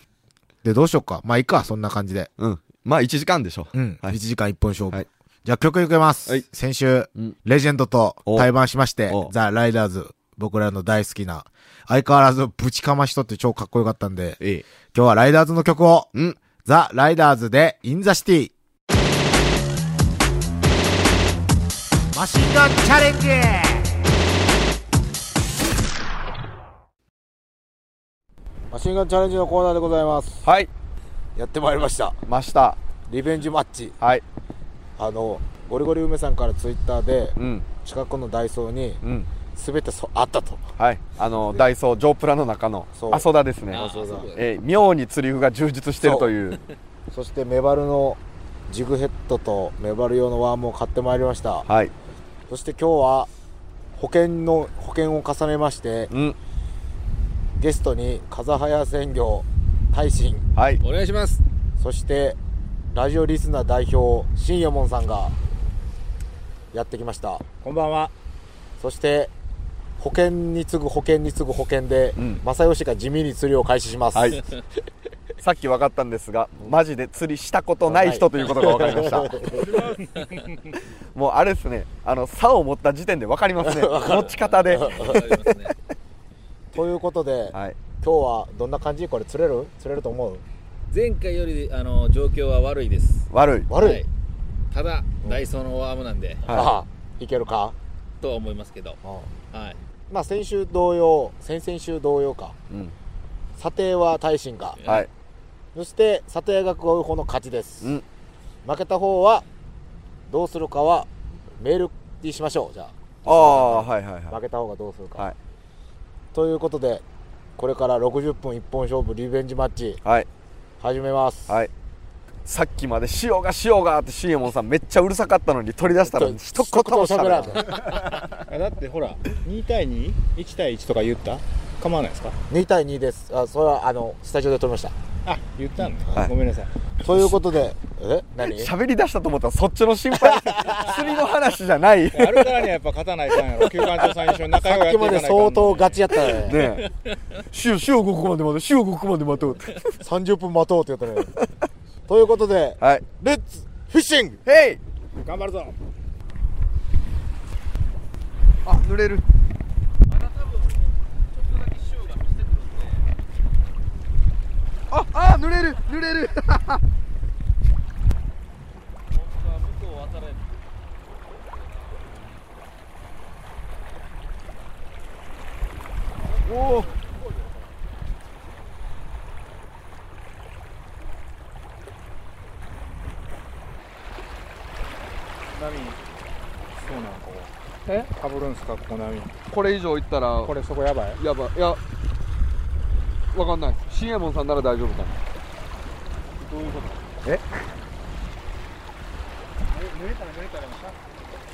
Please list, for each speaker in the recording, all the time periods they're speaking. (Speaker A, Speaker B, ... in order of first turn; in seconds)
Speaker A: 0.6-2.3, 3.7-14.4, 14.9-18.5, 22.1-24.0, 28.7-30.4, 31.4-32.2, 33.1-34.0, 35.0-39.0, 39.5-40.7, 41.3-41.6, 43.0-44.3, 46.0-46.3, 47.1-51.7, 52.5-53.3, 54.0-56.1, 57.6-60.5, 61.8-62.4, 62.9-65.3, 66.7-67.4, 68.8-69.3, 70.0-74.4, 77.8-79.8, 83.6-85.4, 86.7-90.4, 93.7-94.0, 96.5-97.8, 99.0-99.3, 100.1-102.6, 103.6-104.8, 105.8-108.0, 108.7-109.5, 110.3-115.3, 116.3-117.0, 117.6-120.0, 120.8-121.6, 126.0-127.9, 132.5-134.9, 137.0-138.7, 140.2-141.0, 144.6-146.7, 150.0-151.3, 152.1-154.4
Speaker B: 2.4-4.2, 9.1-9.3, 14.4-14.7, 16.1-16.4, 30.4-30.7, 32.2-32.8, 34.0-34.2, 37.4-37.7, 39.0-39.3, 40.8-46.6, 51.7-51.9, 56.1-56.4, 60.5-60.8, 72.2-72.4, 74.1-74.4, 75.4-79.6, 80.9-85.2, 87.5-87.8, 93.3-93.7, 102.7-103.0, 104.8-105.1, 113.2-114.4, 120.0-120.3, 122.5-127.7, 137.1-137.4, 138.5-142.6, 146.4-146.9, 147.5-149.8, 152.8-153.1, 154.4-154.8, 158.6-159.2, 164.9-166.8, 176.4-176.9, 189.5-190.5, 191.2-191.8, 193.3-195.1
Speaker C: 43.7-44.4, 60.8-61.4, 80.0-80.4, 83.9-85.8, 90.9-93.3, 93.8-94.1, 94.7-96.6, 98.2-99.0, 99.5-99.8, 104.8-105.1, 160.1-163.0, 169.2-170.5, 171.7-172.3, 176.7-177.4
Speaker D: 67.6-68.1, 128.3-132.4, 135.3-136.7, 142.1-146.0, 155.2-155.8, 185.5-186.0, 186.8-189.3, 190.4-191.2, 196.4-197.0, 199.7-201.0